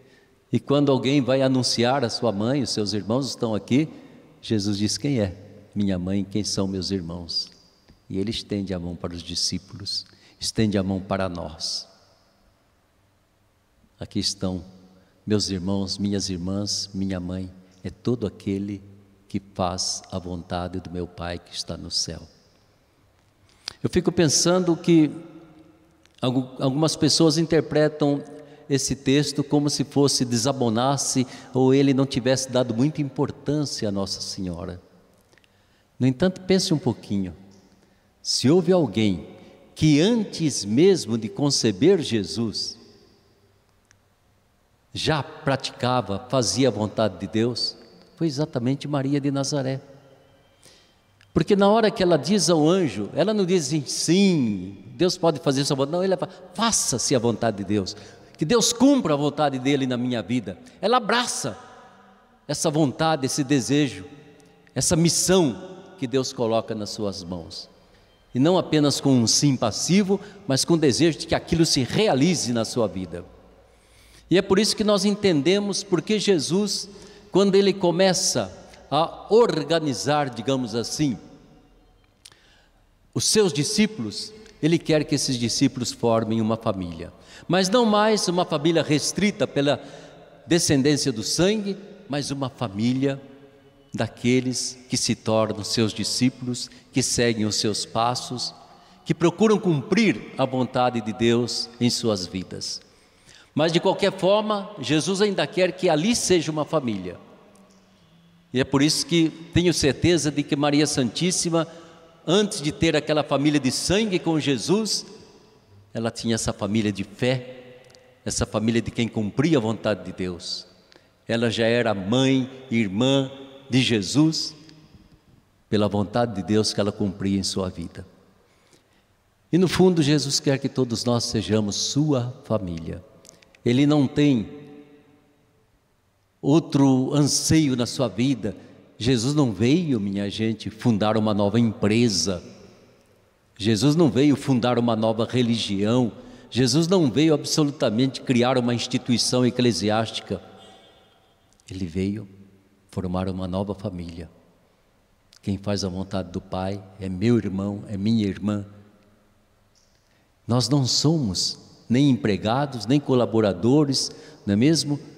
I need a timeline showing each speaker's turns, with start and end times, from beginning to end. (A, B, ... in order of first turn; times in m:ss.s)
0:00.5-0:03.9 A
0:04.4-0:07.5 A
0:08.1-0:11.9 A
0:14.0-0:14.6 A
0:15.3-0:22.3 A
0:23.8-0:25.2 A
0:26.2-0:34.8 A
0:36.0-0:37.4 A
0:38.2-0:42.8 A
0:44.9-0:49.8 A
0:51.3-1:01.6 A
1:02.5-1:04.1 A
1:04.8-1:07.7 A
1:08.3-1:13.3 A
1:14.3-1:21.2 A
1:23.2-1:29.8 A
1:30.5-1:33.2 A
1:33.9-1:42.8 A
1:43.6-1:47.2 A
1:48.5-1:51.7 A
1:52.3-1:55.1 A
1:55.9-1:57.7 A
1:58.2-2:00.7 A
2:01.3-2:04.6 A
2:05.7-2:08.1 A
2:09.5-2:13.0 A
2:13.6-2:14.6 A
2:16.4-2:22.4 A
2:23.6-2:30.4 A
2:31.7-2:32.3 A
2:32.9-2:34.3 A
2:35.4-2:38.7 A
2:40.5-2:45.0 A